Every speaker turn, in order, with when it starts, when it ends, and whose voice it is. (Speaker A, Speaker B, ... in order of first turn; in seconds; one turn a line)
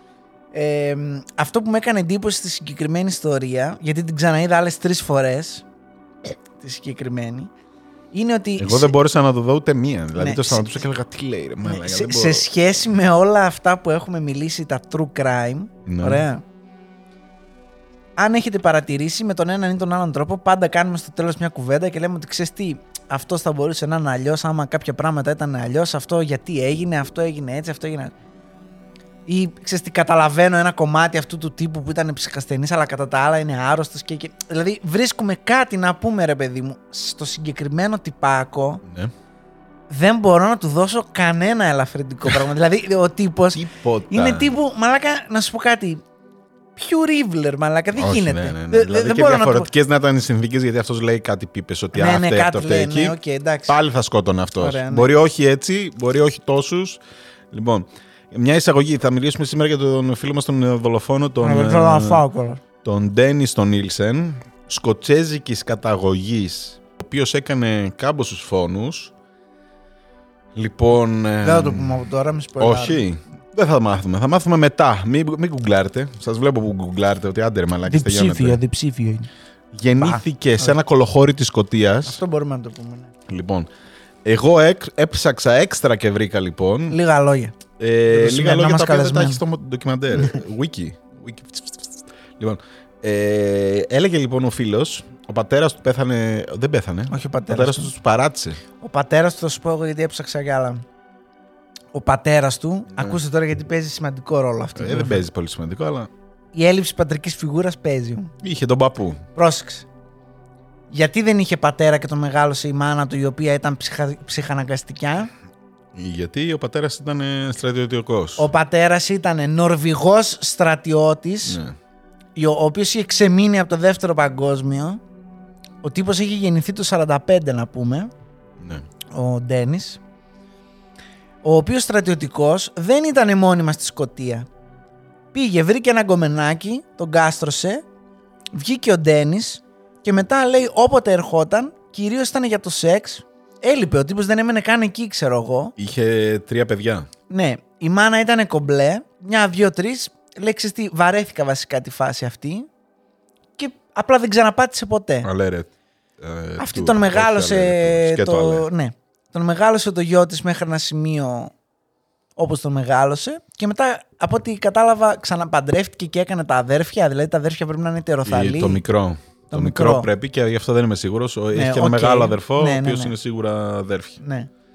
Speaker A: 0.5-5.7
Speaker A: 6.6-7.5
Speaker A: 8.1-8.9
Speaker B: 8.6-12.5
Speaker A: 10.2-10.8
Speaker A: 11.6-16.4
Speaker B: 15.9-16.2
Speaker A: 18.2-28.1
Speaker A: 29.3-38.8
Speaker B: 38.9-39.1
Speaker A: 39.9-46.0
Speaker B: 43.5-44.6
Speaker A: 46.8-49.7
Speaker B: 48.0-53.2
Speaker A: 51.9-53.8
Speaker B: 53.7-62.2
Speaker A: 54.6-55.1
Speaker A: 61.4-62.6
Speaker B: 62.8-69.1
Speaker B: 70.5-72.0
Speaker A: 71.4-73.0
Speaker B: 72.6-78.6
Speaker A: 77.9-79.3
Speaker B: 79.7-82.2
Speaker A: 80.0-80.8
Speaker A: 82.1-83.1
Speaker B: 83.3-83.7
Speaker B: 84.2-87.0
Speaker A: 86.9-87.5
Speaker B: 87.8-98.6
Speaker A: 88.1-89.4
Speaker A: 97.1-97.9
Speaker A: 98.8-100.8
Speaker A: 101.9-105.2
Speaker B: 104.8-106.1
Speaker A: 106.5-108.3
Speaker B: 108.4-109.2
Speaker A: 109.3-109.9
Speaker A: 110.9-115.3
Speaker B: 115.9-118.5
Speaker A: 118.4-121.6
Speaker B: 121.5-121.8
Speaker A: 122.4-125.0
Speaker A: 125.8-128.1
Speaker B: 128.6-128.8
Speaker A: 129.1-130.0
Speaker A: 131.4-134.5
Speaker A: 135.3-137.8
Speaker A: 138.5-145.8
Speaker B: 145.8-147.1
Speaker A: 147.3-152.7
Speaker A: 153.6-155.3
Speaker B: 155.2-155.7
Speaker B: 156.2-158.7
Speaker A: 156.6-161.5
Speaker A: 162.4-168.8
Speaker B: 168.2-174.2
Speaker A: 169.5-170.1
Speaker A: 171.5-173.1
Speaker A: 174.2-174.5